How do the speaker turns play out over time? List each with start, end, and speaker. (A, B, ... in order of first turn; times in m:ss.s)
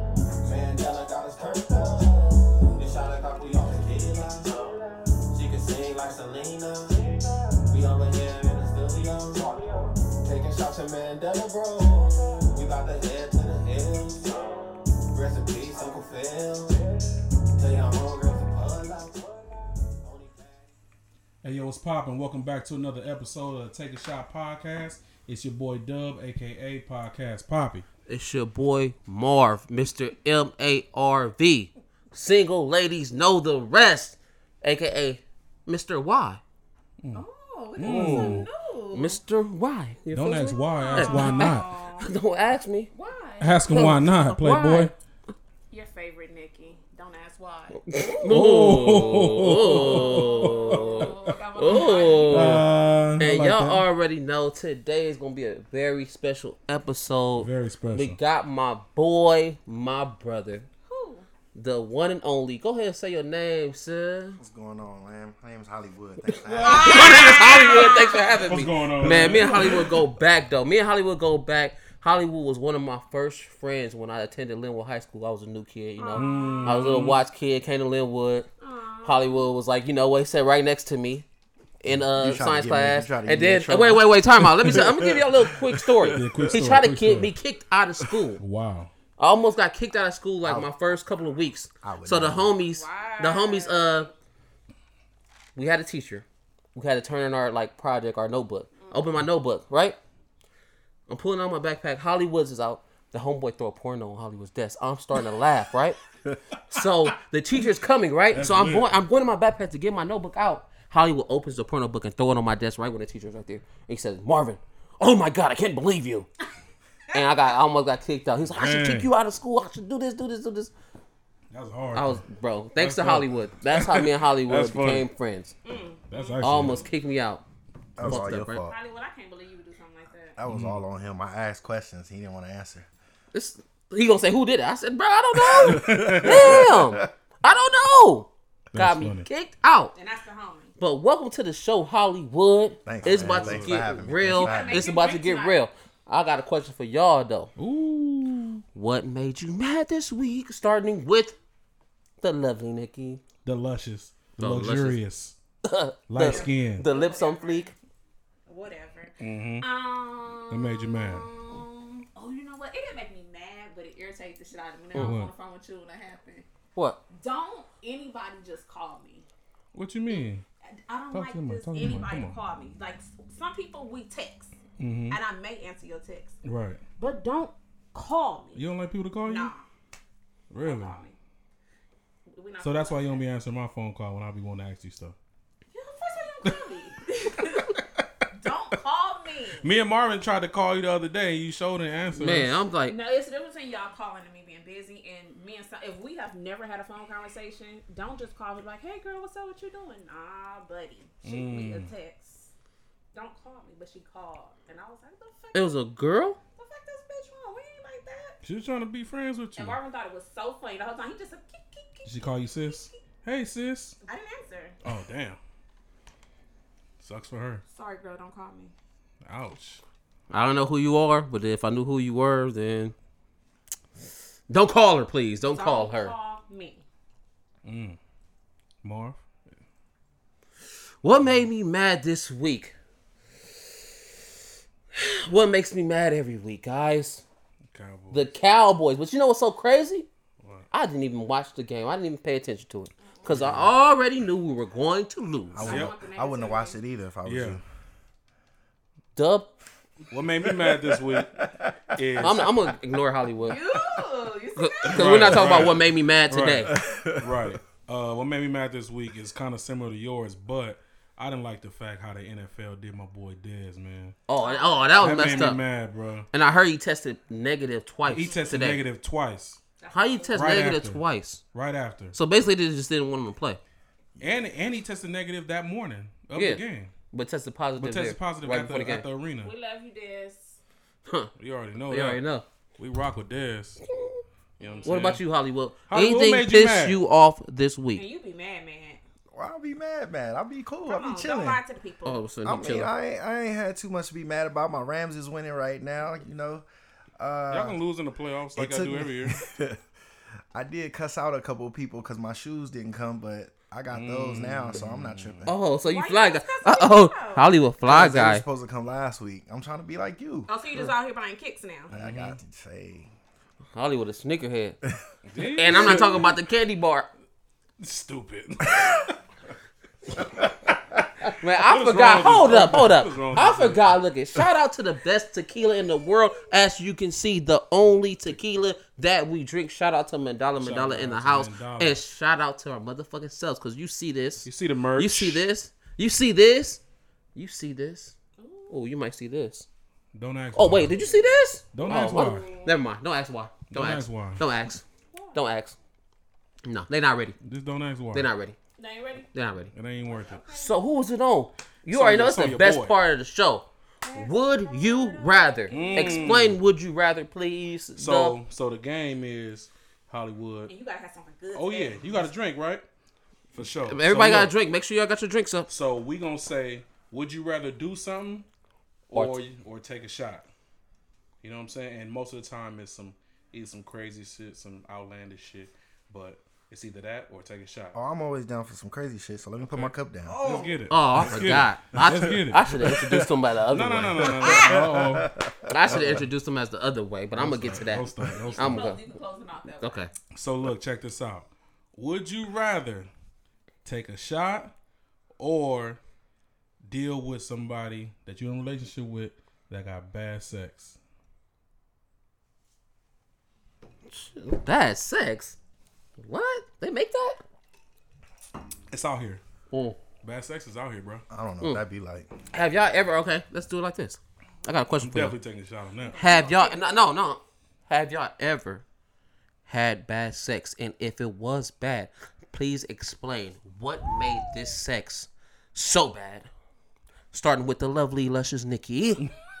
0:00.4-0:04.7 A
0:05.3-0:14.5 A
0:15.1-0:16.9 A
0:17.5-0:20.7 A
0:21.4-0:27.8 B
0:28.1-0:36.4 C
0:37.1-0:39.2 D
0:37.8-0:38.5 B
0:37.8-0:42.9 C
0:40.1-0:41.7 B
0:40.4-0:42.1 D
0:42.9-0:43.6 D
0:43.4-0:44.9 B
0:43.7-0:44.9 C
0:45.7-0:48.3 D
0:47.7-1:00.7 C
0:48.3-0:53.8 B
0:49.6-0:52.7 D
0:57.4-0:58.2 B
1:00.8-1:01.2 D
1:01.5-1:04.4 C
1:04.4-1:07.2 E
1:06.4-1:10.0 B
1:06.6-1:08.6 D
1:06.6-1:18.5 C
1:16.0-1:16.9 D
1:16.1-1:17.2 B
1:18.6-1:19.5 D
1:19.0-1:21.2 C
1:21.8-1:28.4 C
1:22.1-1:26.6 E
1:26.1-1:27.3 B
1:28.4-1:28.9 B
1:29.2-1:34.1 C
1:30.4-1:30.7 E
1:31.8-1:32.5 E
1:32.7-1:34.1 D
1:35.6-1:40.0 C
1:41.1-1:46.0 C
1:46.7-1:56.3 C
1:48.3-1:48.9 B
1:57.1-2:00.7 C
1:58.6-1:59.1 B
2:01.5-2:02.2 B
2:01.9-2:05.5 C
2:02.8-2:05.0 B
2:05.6-2:06.9 D
2:06.1-2:06.8 B
2:06.4-2:07.4 C
2:08.0-2:08.7 E
2:08.0-2:08.6 C
2:08.5-2:10.4 D
2:10.4-2:12.9 E
2:10.5-2:10.8 B
2:13.3-2:19.9 C
2:15.4-2:17.1 E
2:15.5-2:16.8 B
2:18.7-2:19.3 B
2:19.9-2:20.7 D
2:20.8-2:27.5 C
2:22.8-2:25.0 E
2:23.0-2:23.9 B
2:24.2-2:25.6 D
2:27.6-2:28.6 B
2:28.7-2:31.4 C
2:32.2-2:33.2 C
2:33.4-2:35.3 B
2:34.4-2:35.0 C
2:35.6-2:37.7 C
2:36.1-2:36.9 B
2:36.2-2:37.7 D
2:38.5-2:46.4 D
2:39.2-2:39.7 B
2:40.5-2:41.3 B
2:44.9-2:45.3 B
2:47.1-2:49.2 D
2:49.7-2:50.4 B
2:50.1-2:54.5 D
2:51.1-2:52.4 B
2:54.8-2:55.2 B
2:55.1-2:56.3 D
2:56.4-2:56.8 B
2:57.0-2:58.6 D
2:58.5-2:59.5 B
2:59.2-2:59.6 D
3:00.5-3:01.0 B
3:00.6-3:01.1 D
3:02.3-3:03.2 D
3:02.6-3:05.1 B
3:05.7-3:09.7 D
3:06.4-3:06.7 B
3:09.6-3:12.6 B
3:12.2-3:13.0 C
3:12.8-3:22.5 D
3:21.2-3:21.9 B
3:23.1-3:25.8 D
3:25.5-3:26.4 C
3:26.5-3:28.4 D
3:28.4-3:29.8 B
3:29.6-3:33.0 D
3:32.0-3:34.0 B
3:34.0-3:34.8 D
3:34.8-3:35.4 B
3:37.0-3:37.6 B
3:37.7-3:38.7 D
3:39.2-3:39.8 B
3:40.3-3:42.9 C
3:44.5-3:46.1 C
3:45.5-3:46.8 D
3:47.6-3:48.0 B
3:48.8-3:49.2 B
3:51.0-3:52.7 C
3:54.9-3:57.2 C
3:57.7-3:58.2 B
3:58.1-4:00.0 C
4:00.7-4:05.8 C
4:03.3-4:03.7 B
4:05.5-4:07.6 E
4:05.6-4:06.8 D
4:05.6-4:05.9 B
4:07.2-4:07.6 B
4:09.1-4:09.5 C
4:10.1-4:11.3 B
4:10.4-4:11.8 E
4:12.0-4:12.6 B
4:12.2-4:13.6 C
4:13.4-4:15.7 D
4:14.6-4:16.8 C
4:14.9-4:24.2 B
4:16.7-4:17.4 E
4:24.3-4:25.6 C
4:24.4-4:25.5 D
4:25.0-4:26.3 B
4:26.3-4:28.8 C
4:28.1-4:29.6 B
4:28.2-4:28.7 D
4:29.8-4:30.8 D
4:29.9-4:31.4 C
4:30.3-4:31.0 B
4:31.5-4:32.1 B
4:32.1-4:33.6 C
4:34.2-4:36.9 B
4:36.3-4:39.0 C
4:37.8-4:39.5 B
4:39.4-4:40.6 D
4:41.0-4:41.3 C
4:41.4-4:42.2 B
4:41.9-4:42.4 C
4:42.8-4:43.8 B
4:43.8-4:44.2 C
4:44.6-4:45.2 B
4:44.6-4:45.0 D
4:44.8-4:48.0 C
4:45.9-4:47.0 B
4:47.9-4:49.0 D
4:49.3-4:51.6 E
4:50.9-4:52.2 D
4:52.0-4:52.9 C
4:52.4-4:56.6 E
4:57.2-4:57.8 E
4:57.5-4:59.4 B
4:58.5-4:59.8 E
5:00.5-5:05.5 E
5:03.9-5:05.5 B
5:05.4-5:08.4 C
5:05.8-5:07.4 D
5:07.8-5:10.5 E
5:10.5-5:11.9 D
5:11.9-5:12.4 B
5:11.9-5:13.1 E
5:13.7-5:14.8 C
5:15.2-5:16.2 B
5:15.6-5:17.1 C
5:17.8-5:19.0 B
5:21.4-5:36.8 C
5:21.6-5:23.9 B
5:30.6-5:32.0 B
5:34.4-5:35.4 B
5:37.3-5:38.1 C
5:38.4-5:38.8 D
5:38.7-5:39.7 C
5:40.1-5:41.0 B
5:40.5-5:45.7 C
5:41.7-5:42.5 B
5:41.8-5:42.8 D
5:43.7-5:44.4 B
5:46.6-5:47.3 C
5:47.4-5:48.3 B
5:48.1-5:48.6 C
5:48.8-5:49.3 D
5:49.3-5:49.7 C
5:49.7-5:50.4 B
5:50.0-5:50.7 D
5:50.5-5:58.4 C
5:51.9-5:52.9 B
5:54.0-5:56.5 D
5:55.7-5:56.6 B
5:58.0-6:00.7 B
6:00.6-6:02.3 D
6:01.5-6:02.8 B
6:03.5-6:04.5 B
6:03.9-6:05.7 C
6:05.7-6:08.5 B
6:09.1-6:10.4 B
6:09.1-6:09.4 C
6:11.4-6:18.0 B
6:17.9-6:20.4 E
6:19.6-6:25.3 B
6:20.2-6:20.9 D
6:20.9-6:24.6 C
6:24.4-6:26.2 E
6:25.7-6:29.0 C
6:27.3-6:28.9 B
6:28.3-6:30.1 D
6:29.8-6:30.1 C
6:30.3-6:33.1 B
6:33.8-6:34.7 B
6:35.4-6:36.0 B
6:36.8-6:41.0 B
6:44.1-6:45.6 C
6:46.2-6:47.4 C
6:48.9-6:49.4 B
6:49.7-6:50.0 C
6:50.2-6:51.2 B
6:51.3-6:52.3 E
6:52.5-6:55.4 C
6:55.0-6:56.2 B
6:56.0-6:57.0 D
6:56.2-6:58.8 C
6:59.7-7:06.5 C
7:07.3-7:09.2 C